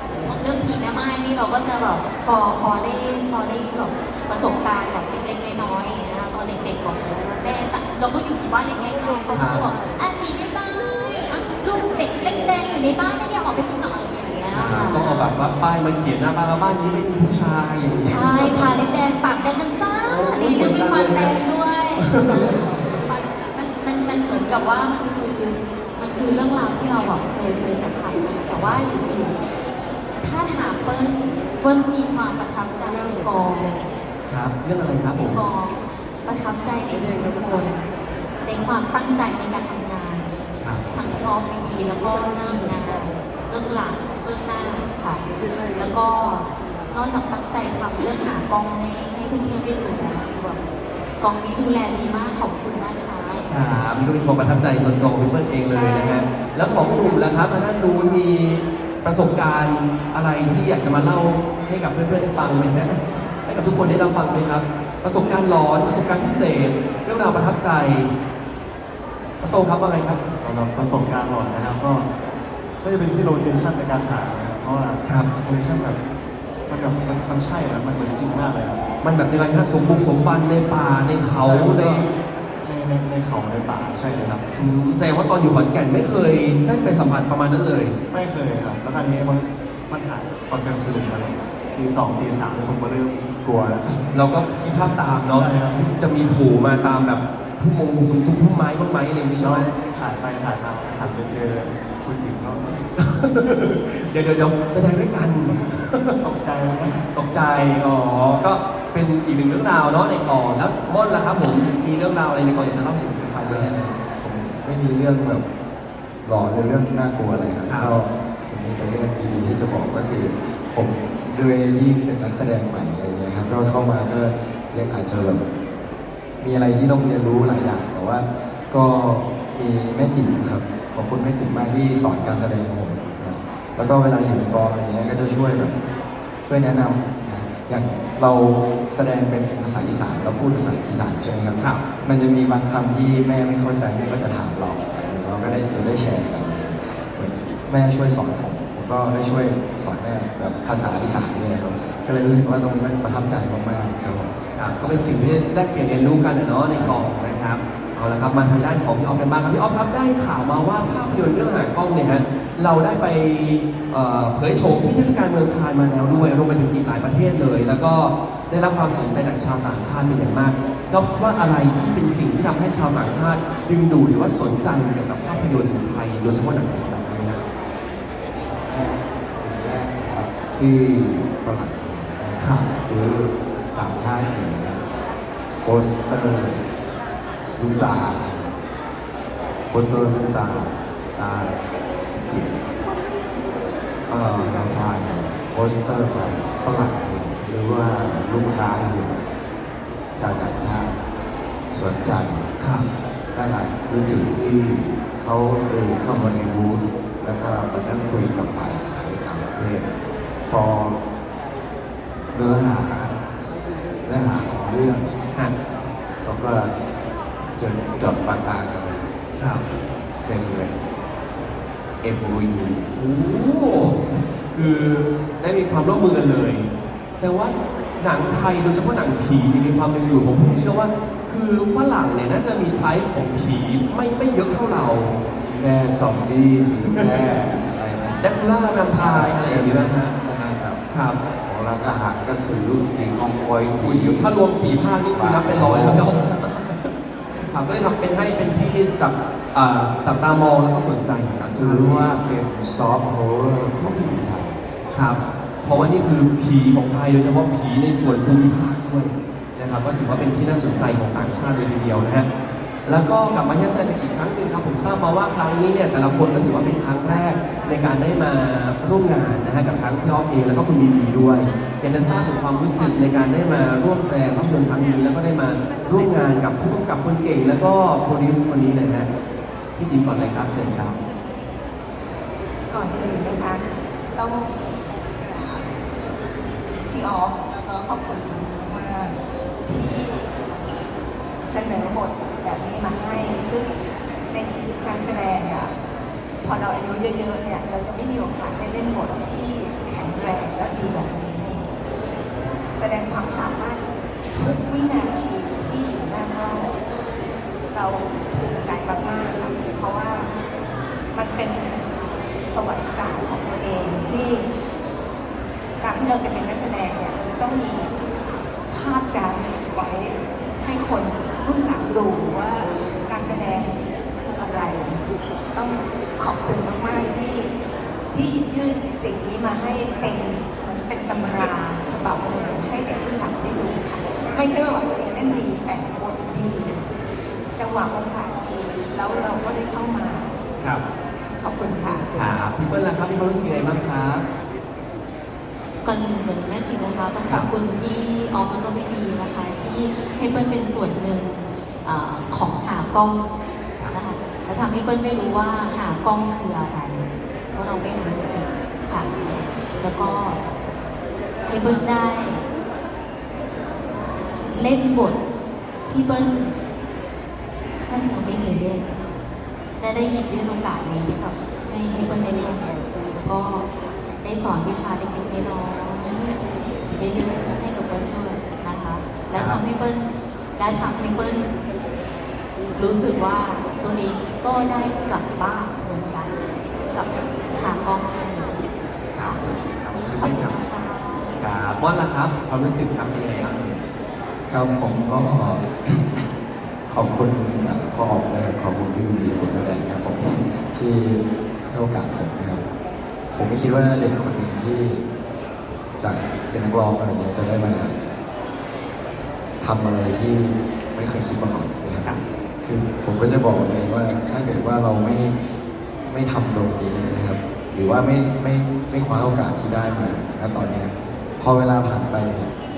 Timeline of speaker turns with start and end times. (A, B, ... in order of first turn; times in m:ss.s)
0:00.2-0:15.3 A
0:09.3-0:09.7 B
0:14.5-0:18.8 B
0:18.0-0:29.3 A
0:20.1-0:21.4 B
0:22.0-0:23.0 B
0:28.5-0:28.9 B
0:30.2-0:33.8 A
0:34.3-0:35.4 B
0:35.1-0:37.9 A
0:38.4-0:40.3 A
0:40.6-0:40.9 B
0:40.9-0:45.2 A
0:45.7-0:50.6 A
0:51.2-0:53.5 A
0:53.4-1:08.1 B
0:55.6-0:57.3 A
1:09.4-1:10.2 B
1:10.4-1:12.1 C
1:12.8-1:16.0 C
1:15.0-1:15.3 B
1:16.7-1:18.8 C
1:19.0-1:22.1 B
1:21.3-1:22.1 C
1:22.6-1:24.6 C
1:24.6-1:28.0 B
1:28.1-1:34.1 C
1:34.1-1:39.7 B
1:35.3-1:35.8 C
1:39.4-1:42.9 C
1:43.0-1:46.2 B
1:45.4-1:47.1 C
1:47.1-1:53.8 B
1:53.4-1:55.4 D
1:56.2-2:05.4 D
2:06.4-2:15.8 D
2:16.4-2:35.3 D
2:21.6-2:21.8 B
2:34.5-2:57.4 B
2:36.7-2:37.0 D
2:58.4-3:04.8 E
3:02.4-3:02.7 B
3:05.6-3:06.6 E
3:07.6-3:08.5 E
3:09.7-3:11.6 E
3:12.2-3:12.6 E
3:14.1-3:19.2 E
3:20.2-3:21.0 E
3:21.7-3:22.5 E
3:22.6-3:22.9 B
3:23.3-3:29.9 E
3:30.5-3:31.0 E
3:32.3-3:35.1 E
3:36.2-3:36.7 E
3:37.6-3:39.1 E
3:39.4-3:39.6 B
3:40.2-3:40.8 E
3:42.0-3:42.9 E
3:43.0-3:44.0 B
3:44.5-3:55.4 B
3:55.4-3:58.2 E
3:56.9-3:57.4 B
3:58.2-4:00.1 B
3:59.0-4:00.8 E
4:00.9-4:01.2 B
4:01.4-4:04.3 E
4:03.8-4:06.9 B
4:05.1-4:06.1 E
4:07.4-4:12.1 B
4:11.5-4:16.0 E
4:13.8-4:14.2 B
4:14.9-4:22.3 B
4:22.8-4:39.1 B
4:39.8-4:41.0 B
4:42.7-4:44.6 F
4:45.2-4:45.7 F
4:46.9-4:50.4 F
4:51.4-4:55.7 F
4:56.4-5:01.7 F
5:02.7-5:06.8 F
5:07.7-5:10.3 F
5:11.1-5:14.5 F
5:15.8-5:17.9 F
5:18.7-5:25.0 F
5:25.5-5:27.5 F
5:28.1-5:36.9 F
5:37.6-5:40.4 F
5:41.1-5:42.1 F
5:42.1-5:44.2 B
5:45.8-5:53.3 A
5:53.9-6:00.4 A
6:01.4-6:02.5 A
6:03.9-6:05.2 A
6:05.9-6:06.5 A
6:07.9-6:08.9 A
6:09.8-6:13.7 A
6:14.2-6:21.5 A
6:19.3-6:19.6 B
6:22.7-6:26.4 A
6:26.9-6:28.6 A
6:29.1-6:30.6 B
6:29.2-6:31.4 A
6:31.4-6:33.8 B
6:34.5-6:36.2 D
6:36.9-6:42.6 D
6:43.3-6:45.0 D
6:46.0-6:47.9 D
6:49.6-6:55.4 D
6:56.1-7:02.5 D